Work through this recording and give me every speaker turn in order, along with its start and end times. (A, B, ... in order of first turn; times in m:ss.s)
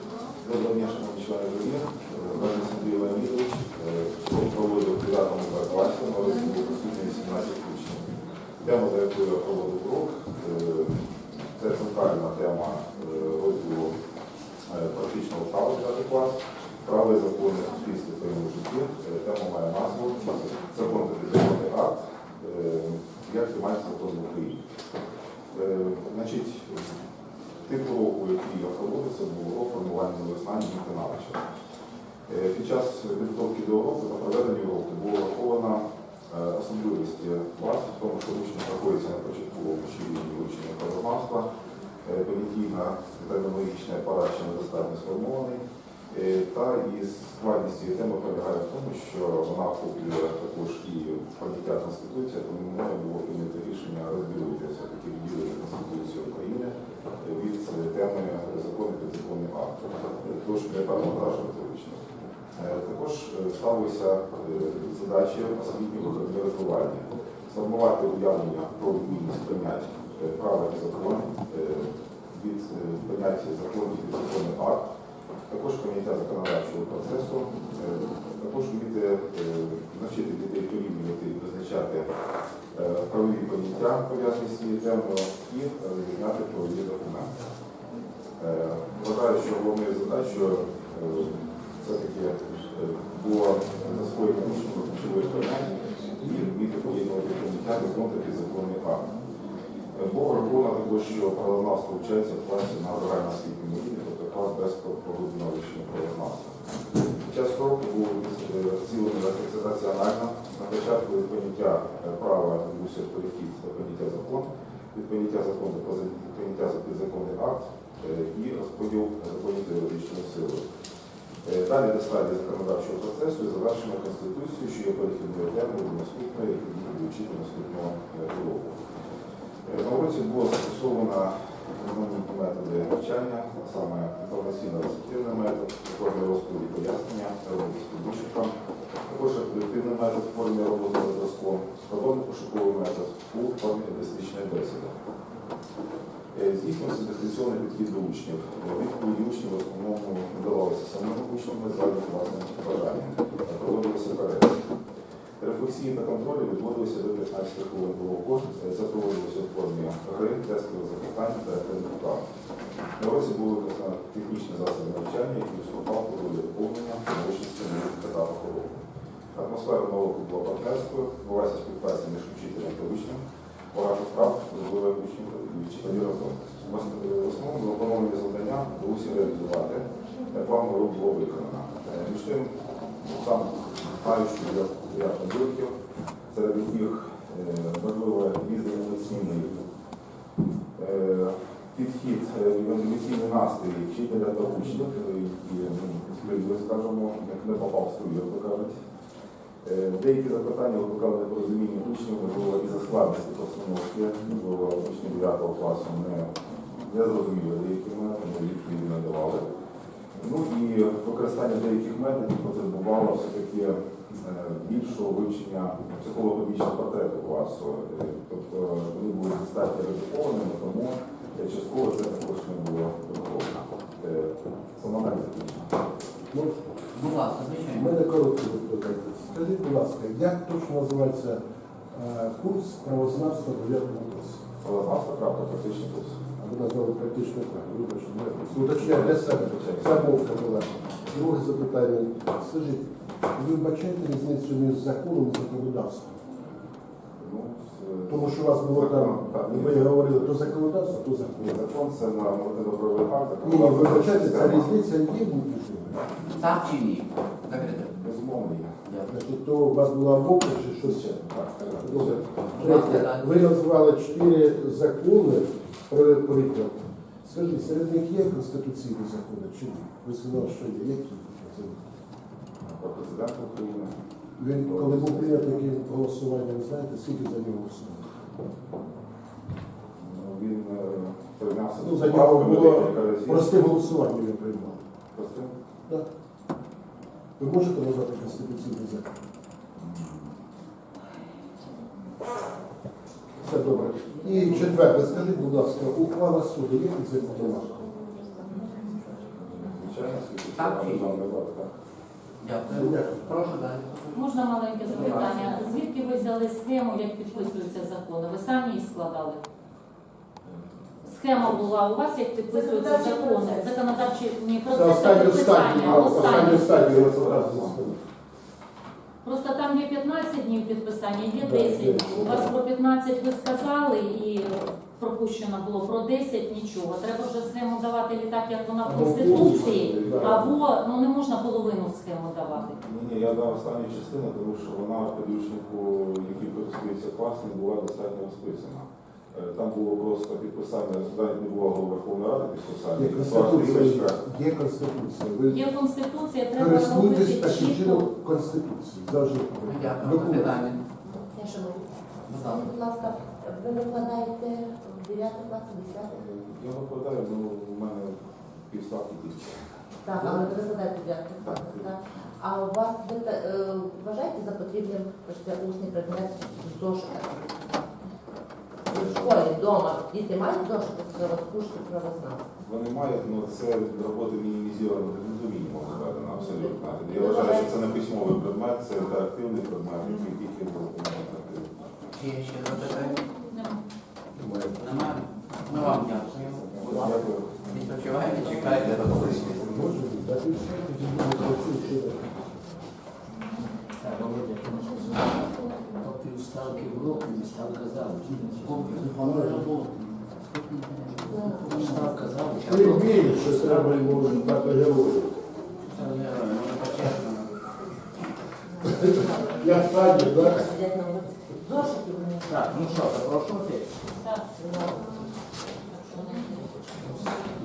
0:00.4-0:08.1 A
0:08.6-0:11.0 A
0:11.5-0:14.0 A
0:14.7-0:24.6 A
0:25.5-0:27.0 A
0:27.6-0:31.4 A
0:32.3-0:41.5 A
0:42.0-0:45.6 A
0:46.1-1:14.9 A
1:15.5-1:22.1 A
1:22.7-1:27.3 A
1:28.4-1:39.0 A
1:39.9-1:46.5 A
1:47.2-2:00.6 A
2:01.4-2:08.8 A
2:09.7-2:18.5 A
2:19.1-2:25.0 A
2:26.3-2:34.6 A
2:35.4-2:42.2 A
2:43.0-2:48.8 A
2:49.4-2:53.2 A
2:53.7-3:05.8 A
3:06.3-3:09.7 A
3:10.8-3:18.8 A
3:19.6-3:26.3 A
3:26.9-3:29.4 A
3:30.2-3:45.8 A
3:46.3-3:46.8 B
3:47.0-3:47.9 C
3:47.6-3:51.4 B
3:51.9-3:54.4 B
3:54.6-3:56.2 A
3:56.4-4:06.2 B
3:58.4-4:00.3 A
4:07.2-4:10.6 A
4:08.1-4:11.6 B
4:11.4-4:14.7 A
4:13.4-4:16.2 B
4:16.3-4:18.0 C
4:18.0-4:18.8 A
4:19.1-4:21.2 B
4:20.8-4:22.5 A
4:21.8-4:31.9 B
4:22.5-4:23.3 C
4:32.6-4:33.9 A
4:34.4-4:38.2 B
4:34.6-4:35.7 A
4:40.0-4:43.8 A
4:41.8-4:44.8 B
4:45.1-4:45.5 A
4:47.4-4:49.2 B
4:49.8-4:50.4 A
4:53.4-4:57.9 B
4:59.3-5:01.7 A
5:00.5-5:01.2 C
5:02.4-5:05.6 C
5:02.7-5:03.5 B
5:04.1-5:09.4 D
5:10.5-5:11.7 A
5:11.0-5:16.7 D
5:12.5-5:13.8 E
5:14.7-5:18.0 B
5:15.8-5:18.0 A
5:19.2-5:32.8 D
5:21.4-5:22.6 B
5:28.8-5:30.5 B
5:29.1-5:30.5 A
5:32.7-5:44.2 A
5:43.0-5:45.7 B
5:45.5-5:48.1 D
5:46.5-5:50.6 B
5:49.7-5:50.9 C
5:51.0-5:56.1 E
5:52.3-5:52.7 C
5:56.1-6:00.6 A
6:00.0-6:07.9 E
6:01.4-6:01.9 A
6:08.9-6:12.4 E
6:08.9-6:09.5 A
6:12.6-6:22.1 A
6:16.4-6:17.7 E
6:22.2-6:23.2 C
6:22.8-6:23.8 D
6:24.4-6:25.0 B
6:24.8-6:27.2 C
6:26.4-6:29.9 A
6:27.7-6:29.7 C
6:29.6-6:32.8 B
6:34.0-6:43.9 F
6:38.6-6:39.9 C
6:39.1-6:39.7 B
6:40.8-6:43.7 C
6:41.3-6:42.1 E
6:42.6-6:45.4 B
6:45.8-6:47.5 C
6:48.7-6:53.8 E
6:48.9-6:50.6 B
6:52.5-6:53.8 C
6:54.2-6:54.4 D
6:54.6-6:55.1 E
6:55.9-6:57.4 D